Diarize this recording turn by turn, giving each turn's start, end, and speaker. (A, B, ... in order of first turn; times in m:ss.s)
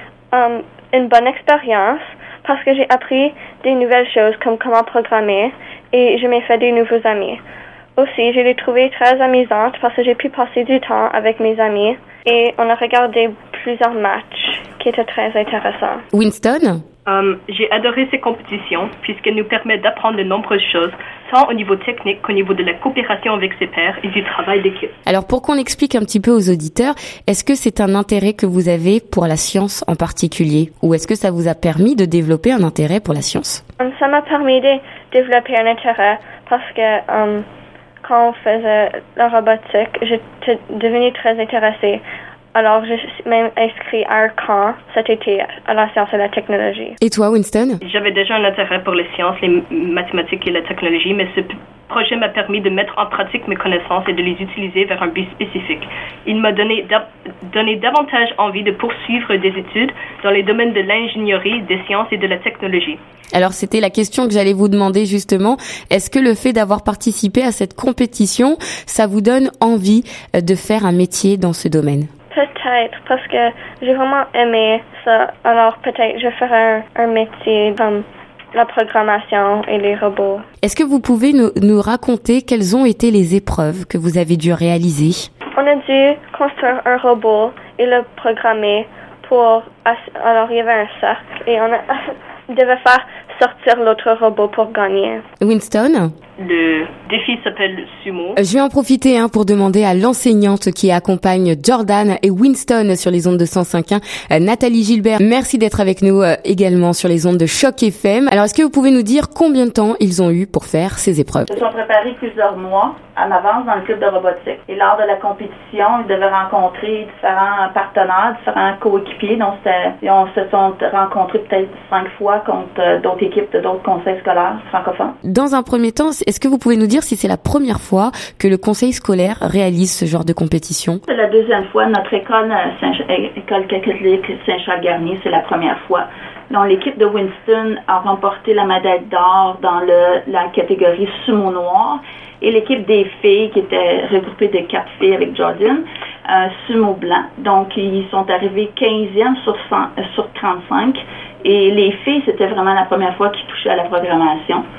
0:00.3-0:07.4 A
0:08.0-0:15.9 A
0:16.1-0:16.8 B
0:17.0-0:24.9 C
0:25.0-0:33.6 B
0:33.8-0:37.4 A
0:38.0-0:42.0 A
0:42.6-0:46.9 A
0:47.0-0:47.8 B
0:47.8-1:03.0 C
1:03.3-1:12.1 B
1:12.3-1:18.0 A
1:18.5-1:20.4 A
1:20.6-1:25.3 B
1:25.6-1:35.2 A
1:35.4-1:36.1 B
1:36.4-1:38.4 C
1:38.4-1:51.5 B
1:51.5-2:05.2 D
2:05.2-2:11.0 B
2:11.1-2:34.6 D